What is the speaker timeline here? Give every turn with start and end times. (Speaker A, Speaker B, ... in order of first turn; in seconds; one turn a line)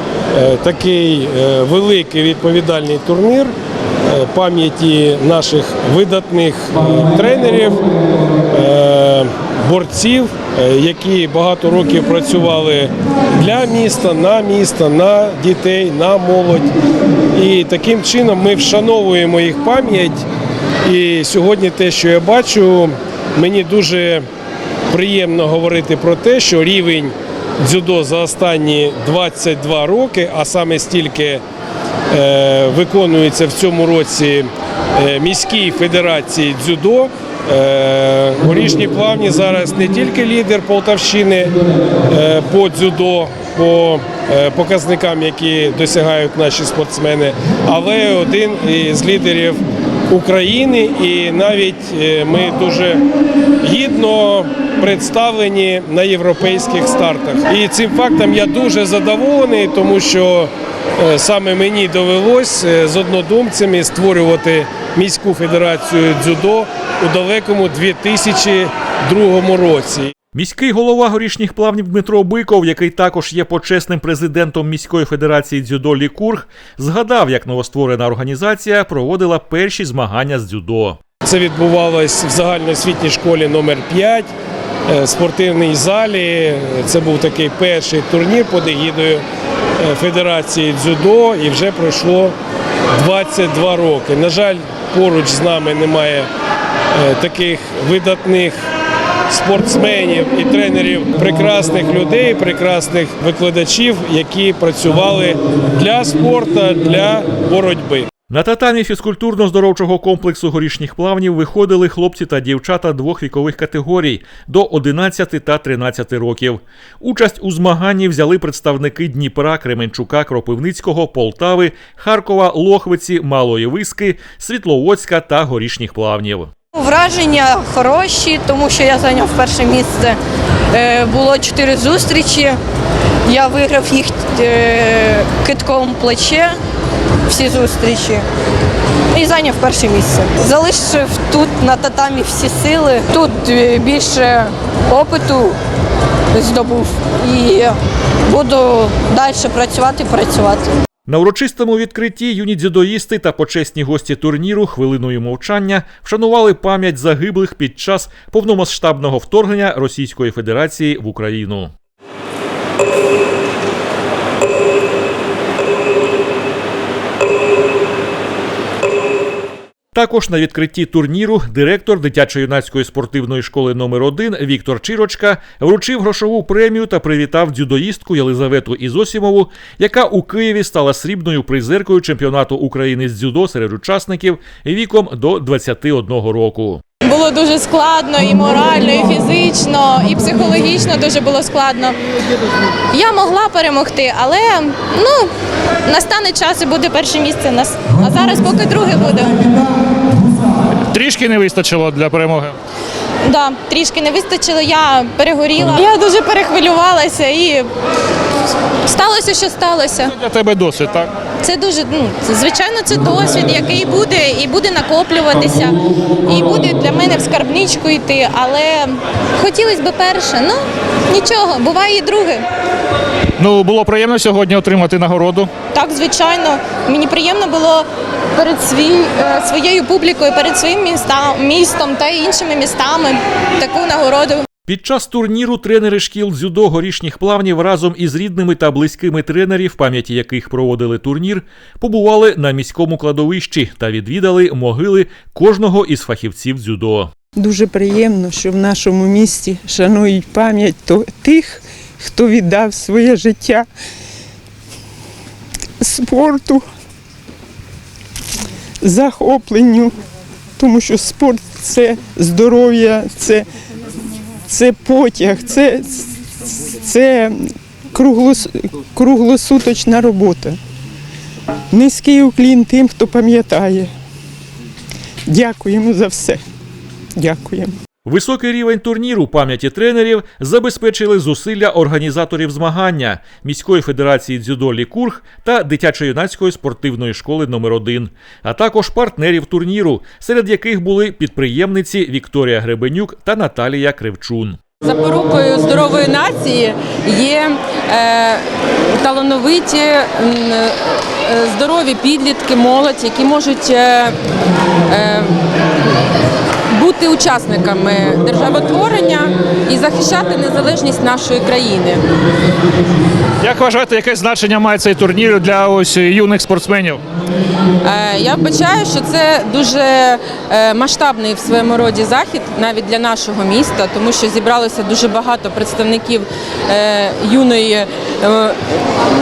Speaker A: 0.3-3.5
Speaker A: 4.1-7.8
Speaker A: 8.5-16.7
Speaker A: 17.3-20.2
Speaker A: 20.8-24.2
Speaker A: 24.9-31.4
Speaker A: 32.1-41.5
Speaker A: 42.1-53.0
Speaker A: 53.6-70.1
Speaker B: 70.3-81.0
Speaker A: 81.2-84.3
Speaker A: 84.9-89.2
Speaker A: 89.8-92.3
Speaker A: 92.9-96.3
Speaker A: 96.9-98.6
Speaker A: 99.3-108.1
Speaker B: 108.3-126.5
Speaker C: 126.7-130.2
Speaker C: 130.7-132.6
Speaker C: 133.3-136.6
Speaker C: 137.3-138.2
Speaker C: 139.1-145.6
Speaker C: 146.3-150.7
Speaker B: 151.1-161.7
Speaker B: 169.9-186.8
Speaker D: 187.1-191.9
Speaker D: 192.9-195.3
Speaker D: 195.8-199.5
Speaker E: 200.9-202.5
Speaker D: 203.2-207.7
Speaker D: 208.9-210.1
Speaker E: 210.1-211.1
Speaker D: 211.4-222.4
Speaker E: 223.4-225.5
Speaker D: 225.7-234.4
Speaker B: 234.7-247.1
Speaker F: 247.4-253.7
Speaker F: 255.8-256.6
Speaker F: 258.8-259.9
Speaker F: 260.6-263.4
Speaker F: 264.5-270.6
Speaker F: 271.7-273.9
Speaker F: 275.3-276.4
Speaker F: 277.2-277.7
Speaker B: 278.0-294.6
Speaker G: 294.9-297.4
Speaker G: 297.9-298.4
Speaker G: 299.0-300.7
Speaker G: 301.3-304.1
Speaker G: 304.9-305.2
Speaker G: 306.8-312.0
Speaker E: 313.4-317.0
Speaker G: 317.8-328.5